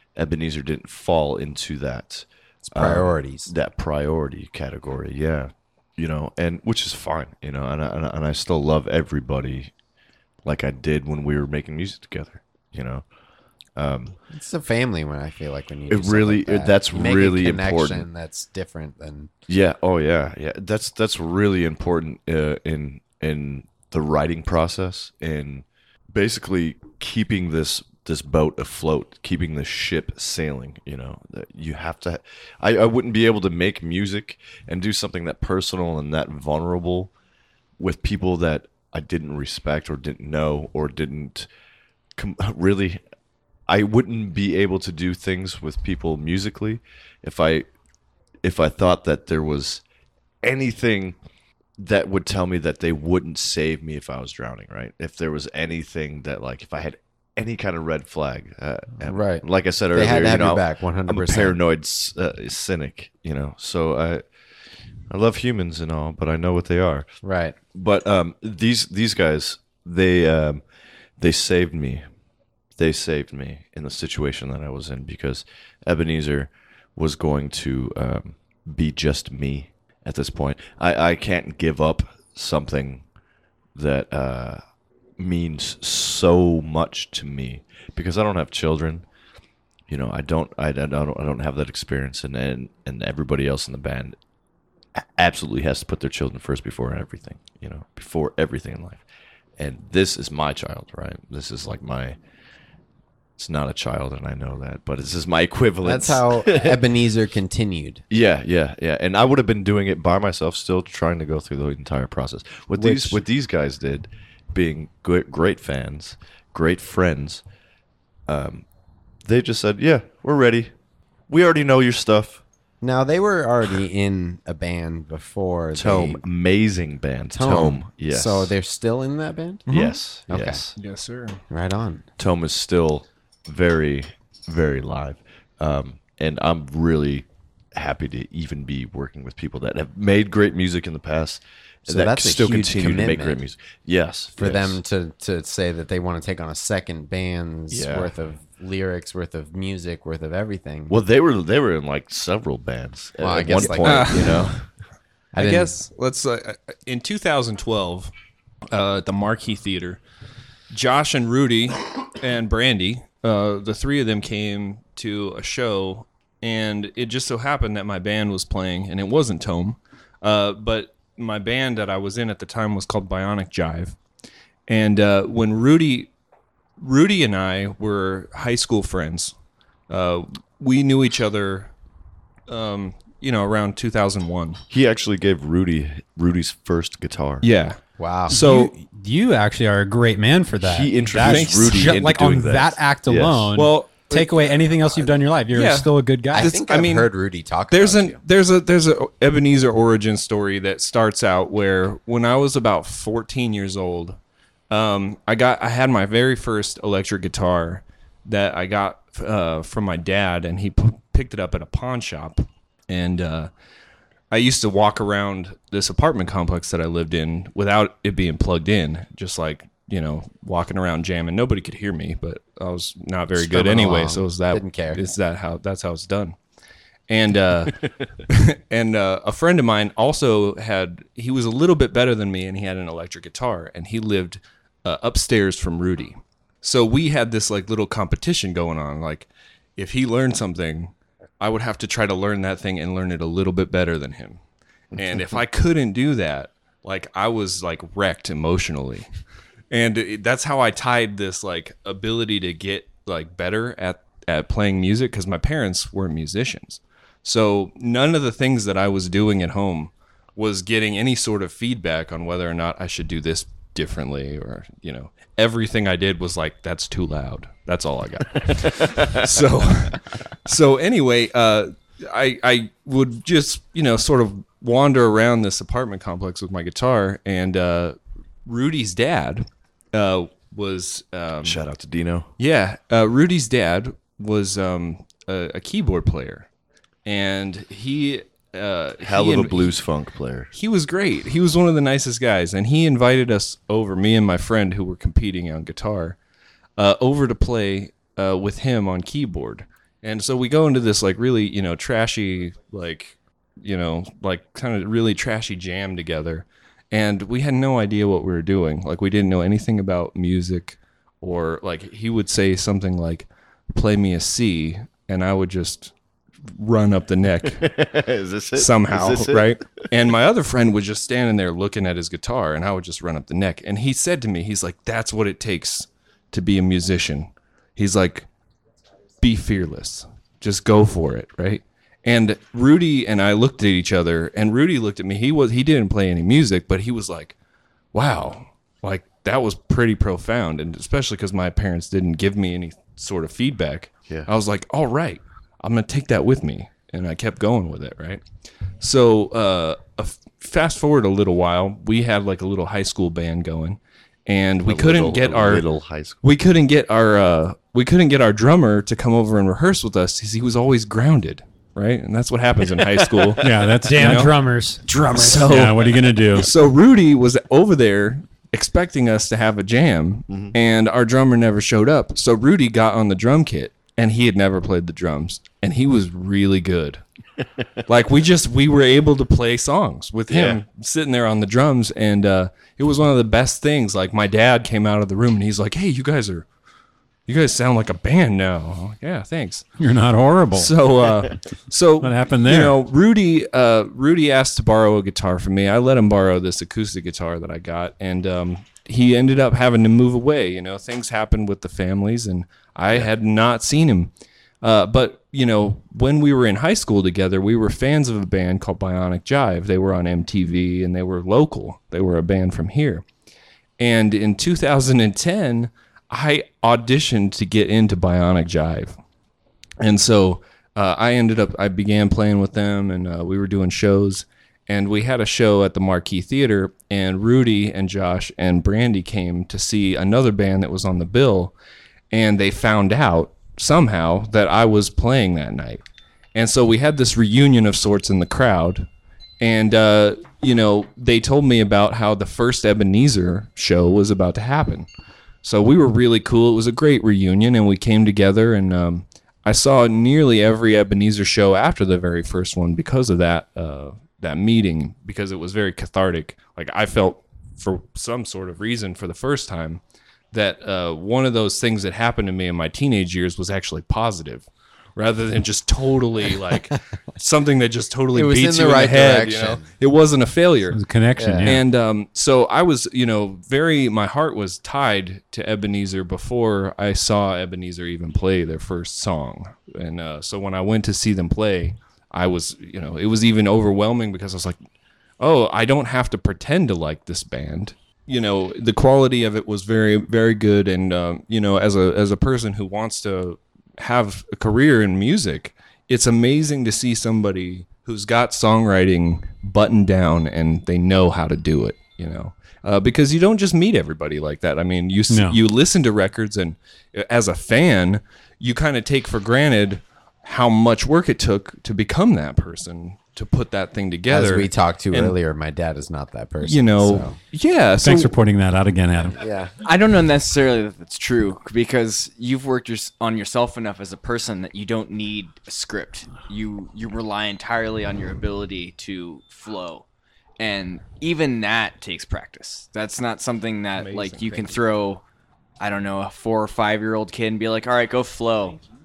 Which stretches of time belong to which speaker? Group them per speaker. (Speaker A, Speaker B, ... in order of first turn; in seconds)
Speaker A: 0.1-9.7, 10.4-13.1, 13.7-14.2, 15.9-18.1, 19.5-37.1, 37.8-41.5, 42.2-43.0, 43.7-47.7, 48.4-49.8, 50.4-51.1, 51.8-64.3, 65.1-67.2, 67.7-70.6, 71.2-72.0, 72.8-83.0, 83.7-84.6, 85.2-89.0, 89.9-94.2, 95.0-99.0, 99.6-102.2, 103.4-106.8, 108.1-117.4, 118.3-118.6, 119.2-120.7, 121.3-122.4, 125.7-128.5, 129.7-130.7, 132.2-144.8, 147.7-148.1, 150.9-154.7, 184.7-187.5, 190.6-193.5, 268.5-269.2, 281.4-282.3, 289.0-290.5, 317.5-319.9, 354.6-356.2, 370.3-370.5, 380.3-380.6
Speaker B: 2.6-3.5, 14.3-19.3, 59.0-61.6, 67.2-67.5, 105.8-108.0, 112.8-113.2, 122.8-126.2, 127.3-129.7, 130.3-130.7, 131.5-132.0, 141.9-143.4, 144.4-151.0, 153.2-154.5, 155.3-155.9, 188.0-188.3, 196.3-198.2, 223.3-225.0, 468.1-469.6, 471.2-471.6, 514.1-517.1, 519.1-519.5
Speaker C: 129.7-130.0, 130.8-131.4, 153.8-154.5, 155.3-158.1, 158.7-160.0, 160.7-174.0, 174.7-176.1, 176.8-179.3, 179.9-181.7, 182.5-184.6, 187.4-188.7, 191.2-191.9, 193.5-194.4, 195.5-197.1, 197.7-204.2, 204.7-213.5, 214.3-226.4, 227.1-227.8, 228.3-244.4, 244.9-249.1, 249.7-281.6, 282.4-286.5, 287.0-289.8, 290.5-296.2, 296.8-315.9, 316.5-317.6, 318.6-328.3, 329.2-337.3, 337.9-355.6, 356.2-364.3, 364.8-377.0, 377.9-386.5, 387.2-389.7, 390.5-413.1, 413.8-418.9, 419.8-431.5, 432.1-444.9, 445.4-470.9, 471.4-484.6, 485.2-515.1, 516.4-518.1, 533.7-534.6
Speaker D: 188.3-196.5, 363.8-365.4
Speaker E: 363.4-364.3, 365.4-366.5, 389.8-390.7, 392.0-392.8, 470.7-471.6, 505.1-505.4, 517.8-519.2
Speaker F: 519.6-529.8, 530.4-535.0, 535.6-538.6